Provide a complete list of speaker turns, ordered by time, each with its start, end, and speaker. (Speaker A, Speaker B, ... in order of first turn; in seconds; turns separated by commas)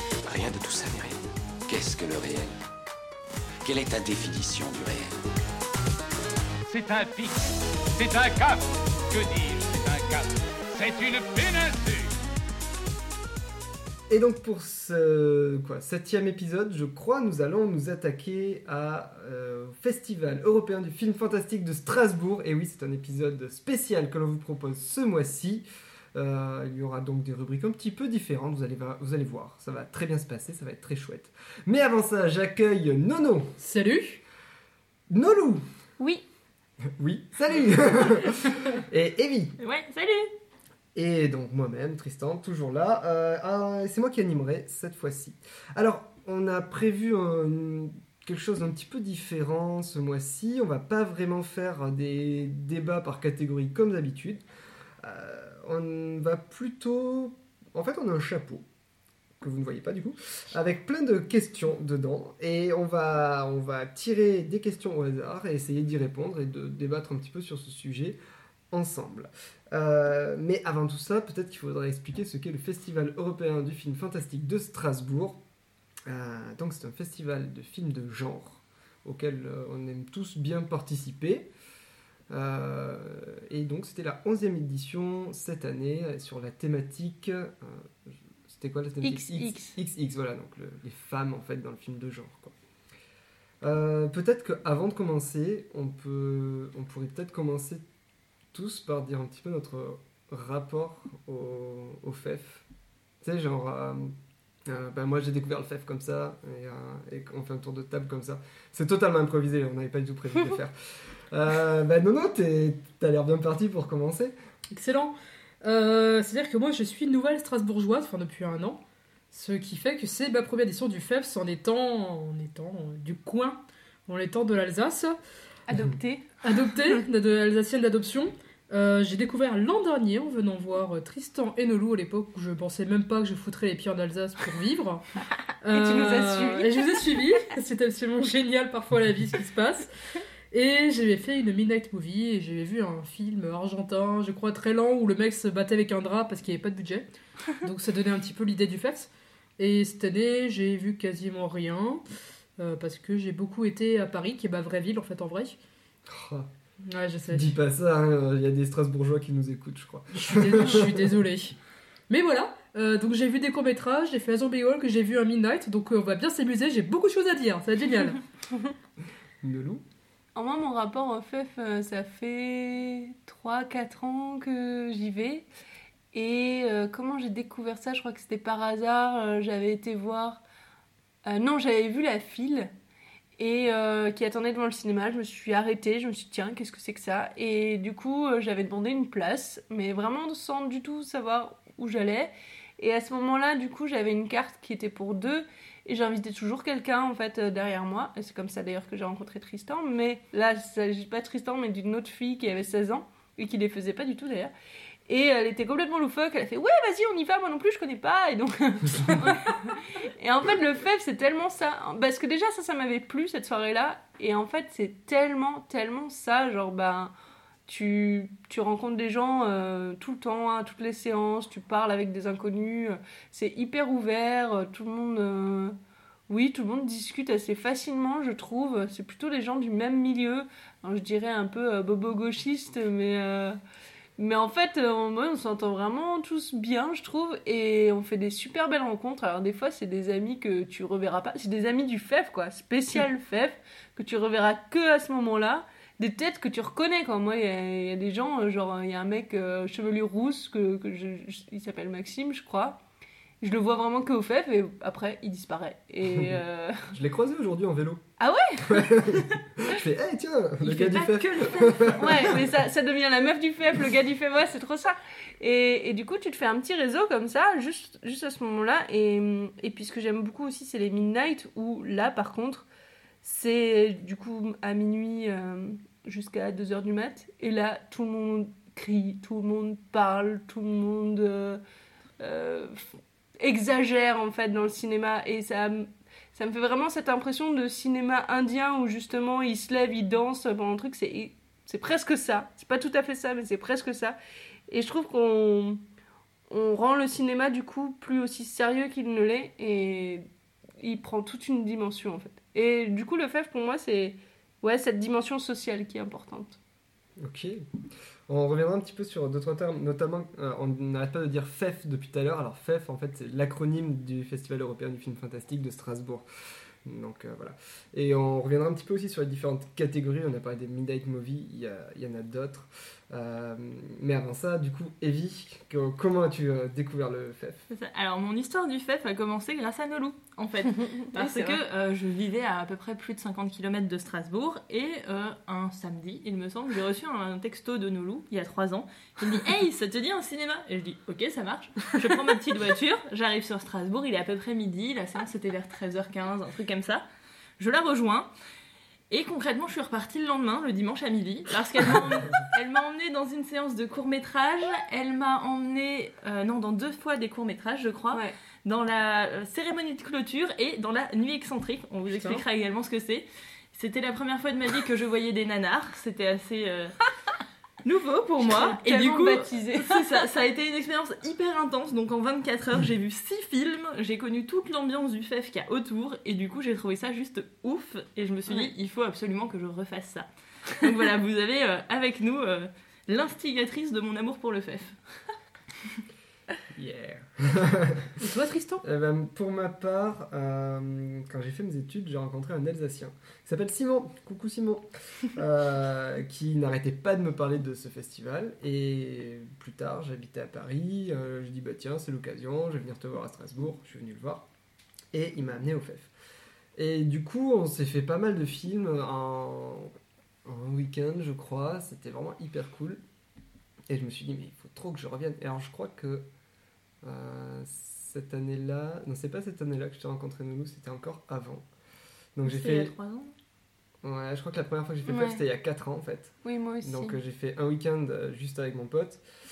Speaker A: 0.2-2.5, Speaker A: 3.6-5.2, Speaker B: 6.7-12.1, Speaker C: 14.1-33.6, Speaker D: 33.6-34.2, Speaker C: 35.1-35.6, Speaker E: 36.0-36.2, Speaker C: 37.0-39.6, Speaker F: 39.6-40.3, Speaker C: 41.0-54.4, Speaker C: 55.0-58.6, Speaker C: 59.4-68.2, Speaker C: 68.7-75.4, Speaker C: 76.1-81.5, Speaker C: 82.3-92.5, Speaker E: 89.0-89.8, Speaker C: 93.6-97.8, Speaker C: 98.5-102.6, Speaker C: 103.2-104.1, Speaker C: 104.7-114.3, Speaker D: 114.7-125.2, Speaker E: 125.7-126.5, Speaker D: 126.4-135.0, Speaker D: 135.6-139.9, Speaker E: 135.7-136.7, Speaker D: 140.5-147.1, Speaker D: 147.6-152.0, Speaker D: 152.6-155.6, Speaker C: 156.1-156.5, Speaker D: 156.8-157.5, Speaker C: 157.3-161.1, Speaker D: 160.1-161.6, Speaker D: 162.1-168.2, Speaker C: 169.4-169.8, Speaker E: 170.3-175.5, Speaker E: 176.1-180.4, Speaker E: 181.2-182.7, Speaker E: 183.4-204.5, Speaker E: 205.1-217.1, Speaker E: 217.7-225.8, Speaker E: 226.3-233.6, Speaker E: 234.2-252.8, Speaker E: 253.4-256.9, Speaker C: 256.1-258.0, Speaker E: 258.2-259.0, Speaker C: 258.6-262.4, Speaker E: 260.6-272.6, Speaker F: 261.0-261.5, Speaker E: 273.2-281.6, Speaker E: 282.2-294.2, Speaker E: 294.7-295.8, Speaker E: 296.5-300.3, Speaker E: 300.8-306.6, Speaker C: 307.2-307.6, Speaker C: 308.3-316.2, Speaker C: 316.8-327.6, Speaker F: 327.7-347.1, Speaker E: 330.9-331.6, Speaker F: 347.6-348.3, Speaker F: 349.1-367.0, Speaker D: 362.1-362.4, Speaker F: 367.8-385.0, Speaker E: 368.4-370.1, Speaker C: 386.8-388.1, Speaker D: 388.2-388.8, Speaker C: 388.8-404.4, Speaker C: 405.1-406.1, Speaker C: 406.8-409.9, Speaker C: 410.5-413.0, Speaker C: 413.9-416.3, Speaker C: 417.0-421.6, Speaker C: 422.4-422.9, Speaker F: 422.4-423.3, Speaker C: 424.0-429.2, Speaker E: 425.1-425.4, Speaker E: 426.4-427.2